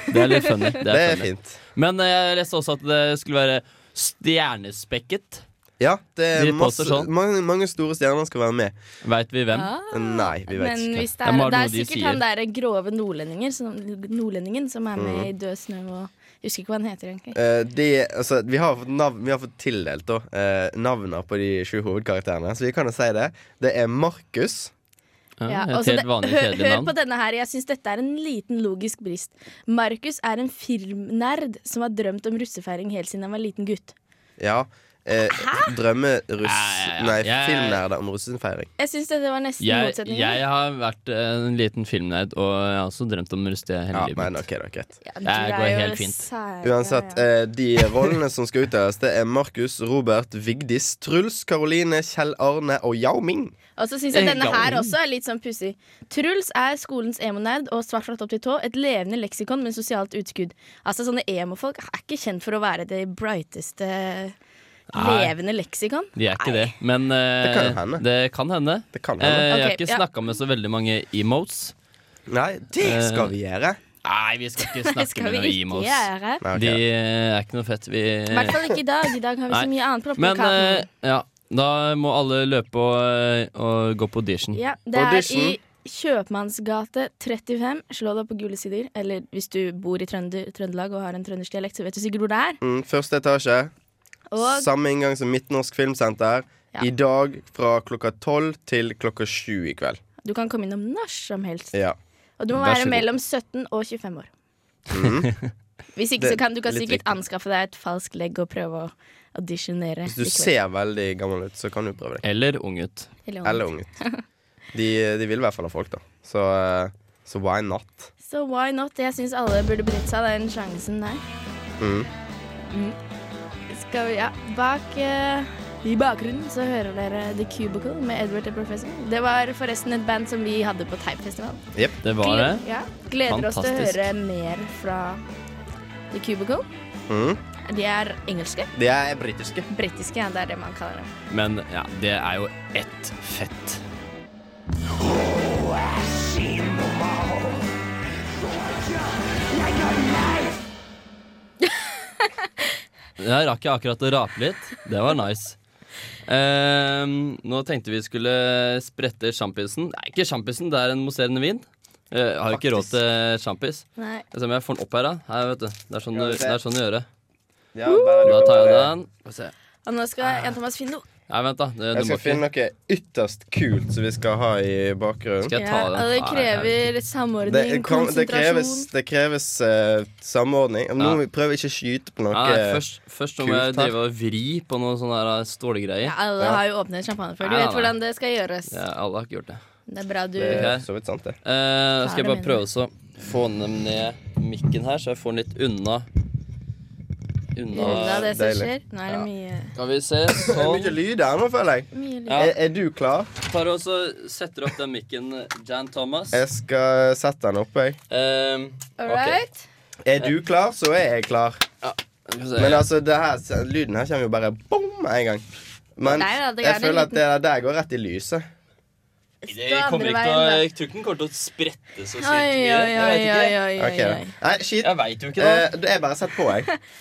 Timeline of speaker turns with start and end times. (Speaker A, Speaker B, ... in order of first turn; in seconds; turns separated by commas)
Speaker A: 0.1-5.4, Speaker B: 0.8-1.5, Speaker B: 5.8-8.8, Speaker A: 6.3-7.1, Speaker A: 9.0-9.7, Speaker C: 9.5-17.4, Speaker B: 9.9-11.1, Speaker A: 11.2-12.2, Speaker B: 14.9-15.3, Speaker B: 17.3-24.7, Speaker A: 25.4-26.9, Speaker C: 25.5-33.9, Speaker B: 34.4-38.7, Speaker A: 36.4-37.8, Speaker C: 38.8-40.4, Speaker A: 39.6-44.4, Speaker B: 43.9-44.9, Speaker C: 45.0-47.2, Speaker A: 45.2-46.2, Speaker B: 46.6-53.5, Speaker C: 53.8-64.3, Speaker A: 54.1-54.9, Speaker A: 64.9-65.3, Speaker C: 64.9-66.7, Speaker A: 66.2-71.7, Speaker B: 67.4-68.0, Speaker B: 68.9-69.5, Speaker C: 69.5-70.0, Speaker B: 72.3-73.8, Speaker A: 72.8-73.3, Speaker A: 74.0-78.8, Speaker C: 74.6-76.4, Speaker B: 76.4-76.8, Speaker C: 78.3-80.9, Speaker A: 79.5-84.6, Speaker C: 84.5-92.6, Speaker B: 84.9-85.6, Speaker B: 92.6-93.7, Speaker C: 94.3-94.7, Speaker B: 94.4-100.0, Speaker C: 100.2-101.8, Speaker C: 102.4-104.3, Speaker B: 102.7-103.0, Speaker B: 104.9-105.3, Speaker C: 105.9-110.5, Speaker B: 106.2-107.1, Speaker B: 110.0-112.2, Speaker A: 112.2-113.1, Speaker C: 113.2-114.2, Speaker B: 113.4-113.9, Speaker B: 114.7-118.1, Speaker C: 118.2-121.2, Speaker B: 121.8-122.1, Speaker C: 122.7-123.0, Speaker C: 123.7-131.6, Speaker A: 132.0-132.6, Speaker C: 132.2-135.2, Speaker A: 133.3-134.1, Speaker C: 136.1-136.7, Speaker B: 137.1-137.4, Speaker C: 137.7-138.7, Speaker B: 138.7-139.7, Speaker C: 139.7-141.1, Speaker A: 141.3-143.8, Speaker A: 153.2-155.6, Speaker A: 156.2-167.1, Speaker B: 162.5-162.9, Speaker C: 164.0-164.2, Speaker B: 166.1-166.6, Speaker B: 167.7-168.9, Speaker C: 167.8-168.4, Speaker A: 168.2-169.5, Speaker C: 169.8-171.0, Speaker A: 171.3-172.4, Speaker B: 171.9-175.5, Speaker A: 175.5-176.9, Speaker C: 175.5-178.9, Speaker B: 177.4-182.8, Speaker A: 182.3-186.2, Speaker B: 183.4-183.9, Speaker C: 186.0-188.8, Speaker A: 187.4-187.9, Speaker A: 188.7-189.6, Speaker C: 189.9-190.7, Speaker B: 190.4-191.4, Speaker A: 190.5-190.8, Speaker A: 191.4-196.1, Speaker C: 192.0-192.6, Speaker A: 197.5-198.3, Speaker C: 197.7-199.7, Speaker B: 197.8-198.7, Speaker A: 199.7-201.0, Speaker B: 200.3-203.3, Speaker C: 201.9-202.5, Speaker A: 203.5-206.4, Speaker B: 206.3-208.0, Speaker A: 208.1-209.4, Speaker C: 209.0-209.7, Speaker B: 210.1-211.6, Speaker A: 211.8-212.9, Speaker B: 212.6-215.4, Speaker B: 216.0-218.4, Speaker C: 216.1-217.2, Speaker C: 219.4-220.6, Speaker A: 219.5-223.6, Speaker C: 222.2-224.3, Speaker B: 223.8-226.7, Speaker A: 224.8-225.7